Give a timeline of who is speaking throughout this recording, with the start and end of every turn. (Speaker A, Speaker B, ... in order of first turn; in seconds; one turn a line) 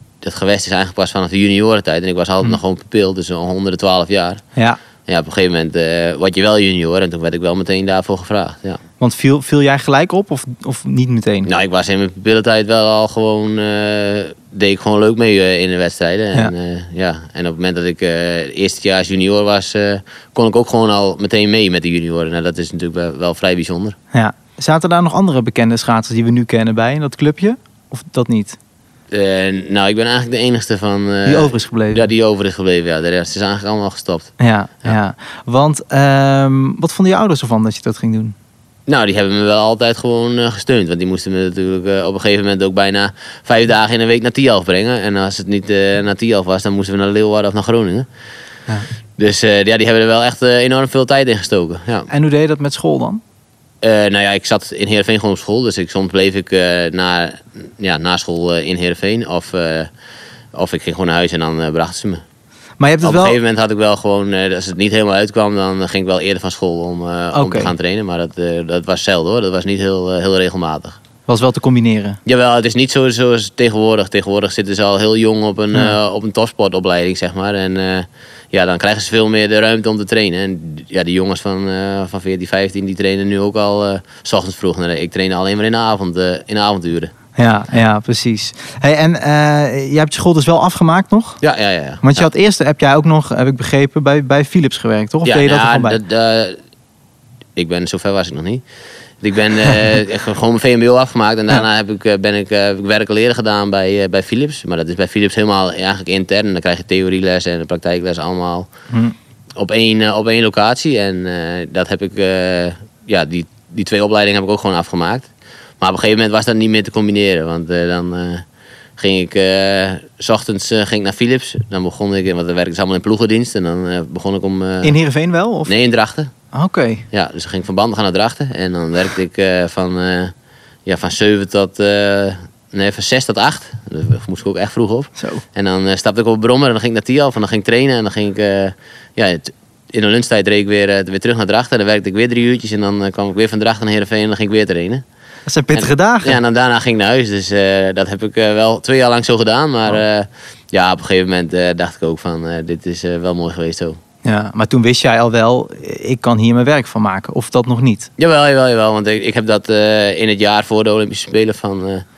Speaker A: 0.2-4.4
Speaker A: 5.1-8.8
Speaker B: 9.0-11.5
Speaker A: 11.4-23.9
Speaker B: 24.1-28.6
Speaker A: 29.1-34.9
Speaker B: 31.2-32.0
Speaker B: 34.4-38.3
Speaker A: 38.9-48.1
Speaker A: 49.2-52.1
Speaker B: 52.1-53.2
Speaker A: 53.8-59.9
Speaker A: 60.5-62.2
Speaker B: 62.8-63.4
Speaker A: 63.0-71.0
Speaker B: 67.3-67.7
Speaker B: 71.3-72.2
Speaker A: 72.2-87.1
Speaker B: 87.3-91.4
Speaker A: 91.4-92.3
Speaker B: 92.0-96.0
Speaker A: 95.2-96.6
Speaker A: 97.6-98.6
Speaker A: 99.2-108.7
Speaker B: 108.9-109.1
Speaker A: 109.6-115.3
Speaker A: 115.8-118.4
Speaker A: 119.0-124.9
Speaker B: 124.8-125.7
Speaker A: 125.7-126.3
Speaker B: 126.5-127.0
Speaker A: 127.1-130.3
Speaker A: 130.8-145.0
Speaker B: 135.2-135.4
Speaker B: 145.5-146.4
Speaker A: 145.7-154.0
Speaker B: 154.2-158.1
Speaker A: 158.2-162.0